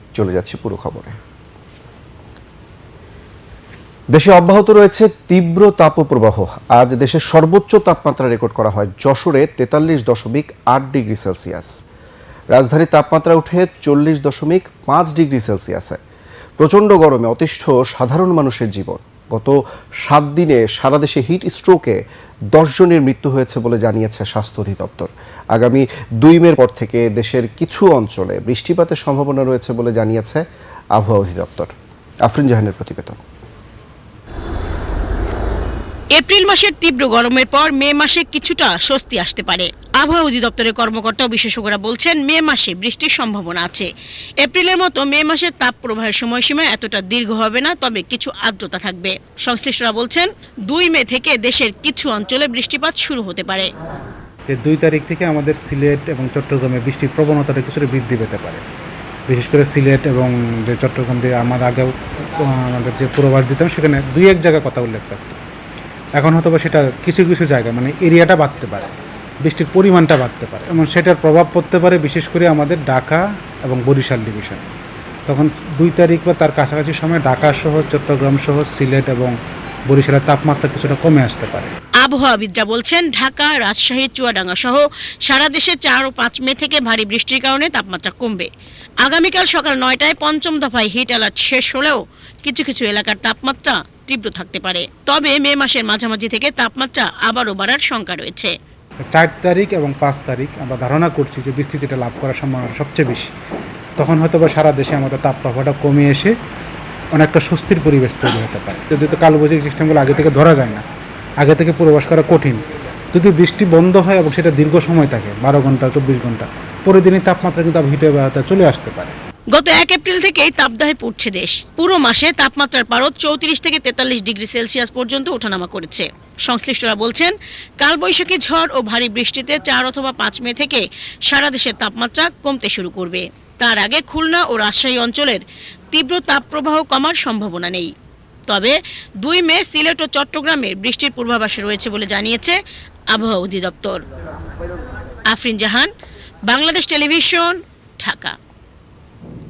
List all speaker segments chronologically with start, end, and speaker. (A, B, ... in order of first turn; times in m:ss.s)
0:00.2-0:01.2 A
0:04.1-0:11.7 A
0:12.5-0:16.0 A
0:16.6-0:22.0 A
0:22.5-0:30.4 A
0:31.0-0:31.7 A
0:32.2-0:33.2 A
0:36.2-0:43.9 B
0:44.4-0:53.7 B
0:54.5-0:58.6 C
0:59.3-1:05.4 C
1:06.2-1:14.6 C
1:15.3-1:19.3 C
1:19.9-1:21.7 C
1:22.0-1:28.5 B
1:29.0-1:38.5 B
1:39.0-1:43.3 C
1:44.0-1:46.4 C
1:47.1-1:50.9 C
1:51.4-1:59.2 C
1:59.5-2:17.9 B
2:18.5-2:22.6 B
2:23.1-2:24.0 B
2:25.3-2:25.9 B
2:26.5-2:28.4 B